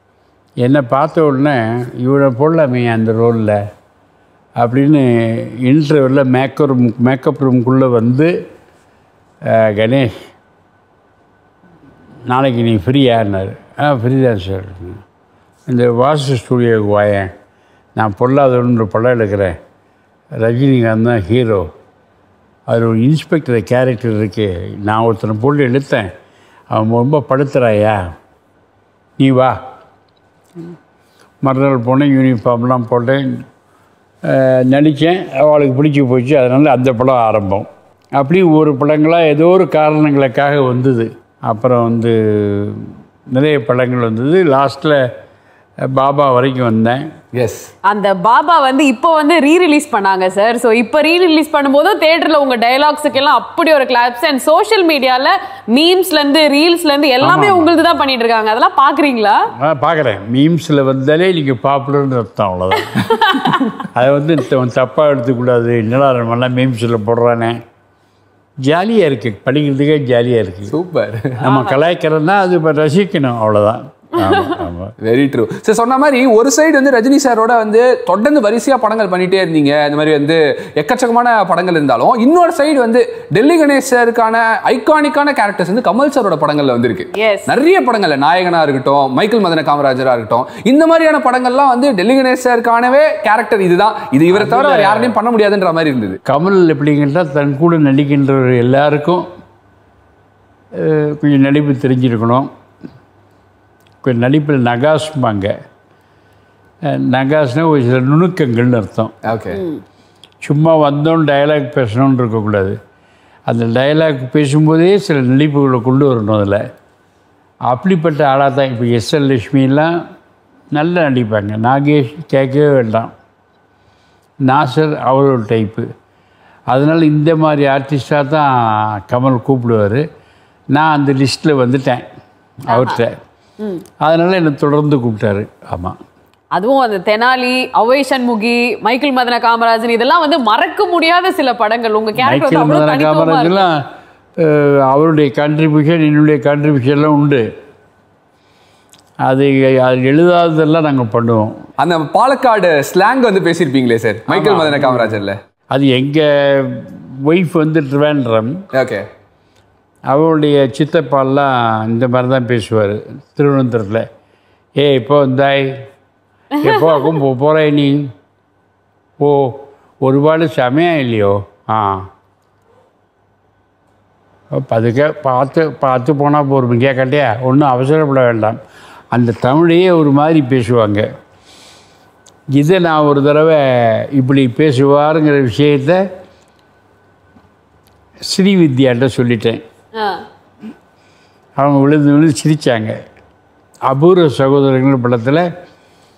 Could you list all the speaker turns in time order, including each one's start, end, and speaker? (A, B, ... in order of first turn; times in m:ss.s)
0:00.6-0:03.6 A
0:04.6-0:08.3 A
0:09.4-0:10.1 A
0:12.3-0:15.0 A
0:15.7-0:17.3 A
0:18.0-0:19.6 A
0:20.4-0:21.7 A
0:22.7-0:26.1 A
0:26.7-0:28.1 A
0:29.2-0:29.6 A
0:31.4-0:33.4 A
0:34.2-0:45.1 A
0:45.8-0:47.1 A
0:47.3-0:47.7 B
0:47.8-0:59.5 C
0:57.2-0:57.7 A
0:59.6-1:03.2 A
1:03.8-1:07.6 A
1:08.6-1:10.7 A
1:10.7-1:11.4 B
1:11.4-1:14.9 A
1:11.4-1:11.7 C
1:15.0-1:36.2 B
1:27.1-1:27.5 C
1:34.3-1:35.2 A
1:36.2-1:39.3 A
1:40.7-1:42.5 A
1:44.0-1:45.5 A
1:46.8-1:49.3 A
1:49.2-1:49.6 B
1:50.4-1:52.8 A
1:53.5-1:56.6 A
1:57.7-1:59.9 A
2:00.7-2:03.1 A
2:04.4-2:05.9 A
2:06.7-2:10.1 A
2:10.7-2:12.0 A
2:12.7-2:13.2 A
2:12.7-2:13.0 C
2:14.0-2:16.0 A
2:16.5-2:23.6 C
2:22.2-2:23.8 A
2:24.4-2:27.5 A
2:29.2-2:31.6 A
2:31.8-2:35.4 B
2:34.3-2:38.6 A
2:38.7-2:39.0 B
2:40.1-2:44.1 A
2:44.8-2:45.9 A
2:46.6-2:48.1 A
2:49.2-2:52.1 A
2:54.5-2:58.6 A
2:59.1-3:01.0 A
3:02.5-3:06.0 A
3:08.3-3:09.6 A
3:10.0-3:10.2 C
3:11.6-3:13.0 A
3:13.9-3:15.5 A